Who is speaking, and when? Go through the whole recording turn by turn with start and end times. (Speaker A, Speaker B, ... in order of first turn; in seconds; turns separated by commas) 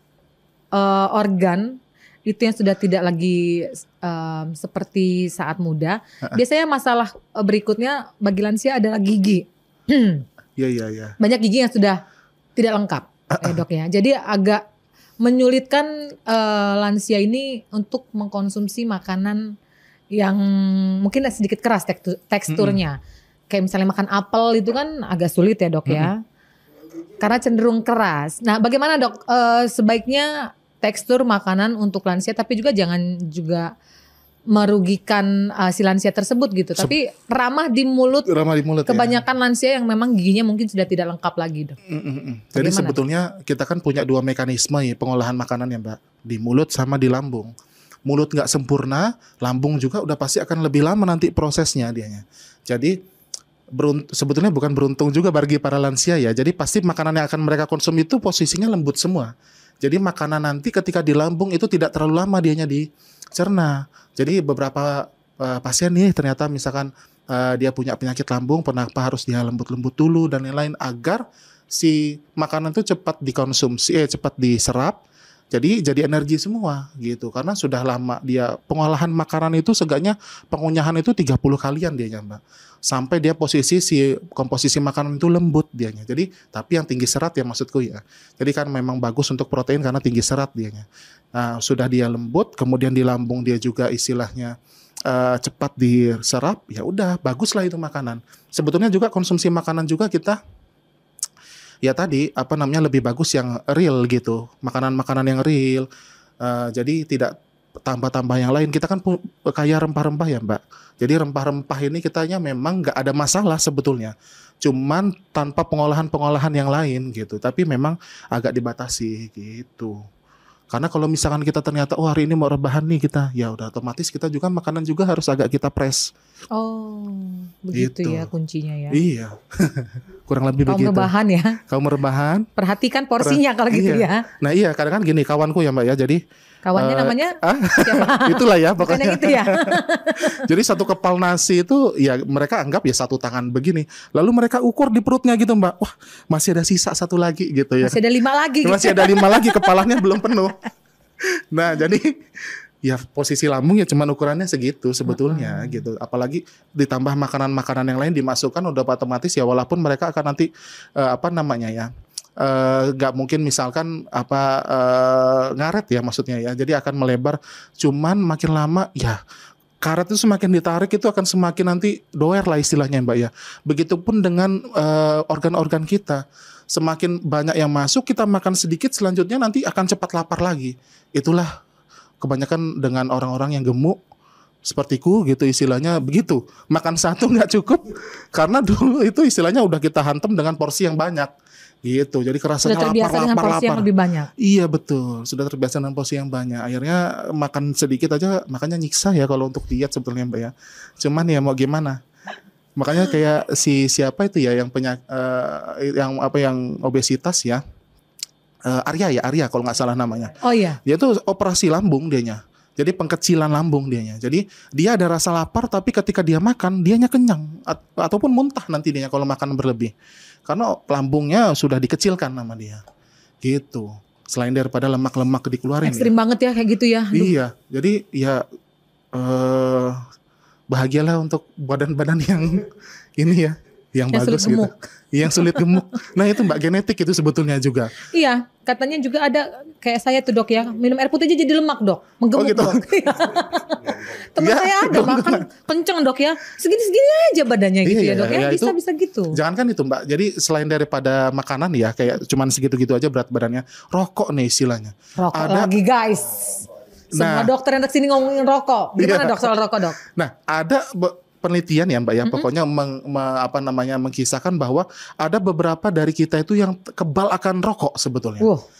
Speaker A: 0.7-10.3, Speaker B: 10.6-11.2, Speaker A: 11.2-12.0, Speaker A: 12.6-14.6, Speaker B: 13.3-13.6, Speaker A: 15.2-19.6, Speaker A: 20.1-23.0, Speaker B: 22.5-22.8, Speaker A: 23.5-26.2, Speaker A: 27.2-33.7, Speaker A: 34.5-38.3, Speaker B: 38.3-39.2, Speaker A: 38.9-41.8, Speaker B: 41.9-47.5, Speaker A: 42.5-43.0, Speaker B: 48.1-53.0, Speaker B: 53.8-59.3, Speaker B: 59.8-71.2, Speaker B: 71.8-75.0, Speaker B: 75.5-94.5, Speaker B: 95.1-100.4, Speaker B: 101.8-105.9, Speaker B: 106.4-120.0, Speaker B: 120.7-126.1, Speaker A: 126.5-129.0, Speaker B: 127.7-128.3, Speaker B: 128.9-131.1, Speaker A: 130.7-131.6, Speaker B: 131.7-132.5, Speaker A: 132.6-134.3, Speaker B: 133.2-136.2, Speaker A: 136.7-140.5, Speaker B: 136.8-139.8, Speaker B: 140.3-148.0, Speaker A: 147.8-150.1, Speaker B: 148.6-150.6, Speaker B: 151.5-169.2, Speaker A: 155.1-155.9, Speaker B: 169.8-181.5, Speaker B: 182.2-184.0, Speaker B: 184.6-191.3, Speaker B: 191.8-193.9, Speaker A: 192.6-194.3, Speaker B: 194.4-202.0, Speaker B: 202.8-207.6, Speaker B: 208.7-210.3, Speaker A: 210.4-210.8, Speaker B: 210.8-219.9, Speaker B: 220.5-222.8, Speaker B: 223.4-226.1, Speaker A: 225.8-227.3, Speaker B: 227.1-228.4, Speaker B: 229.1-230.0, Speaker B: 230.7-238.0, Speaker A: 234.1-234.7, Speaker A: 235.3-235.8, Speaker A: 238.0-249.4, Speaker B: 242.3-243.0, Speaker B: 244.1-245.4, Speaker B: 247.8-248.8, Speaker B: 249.3-255.7, Speaker A: 255.2-260.0, Speaker B: 257.1-257.5, Speaker B: 259.0-268.5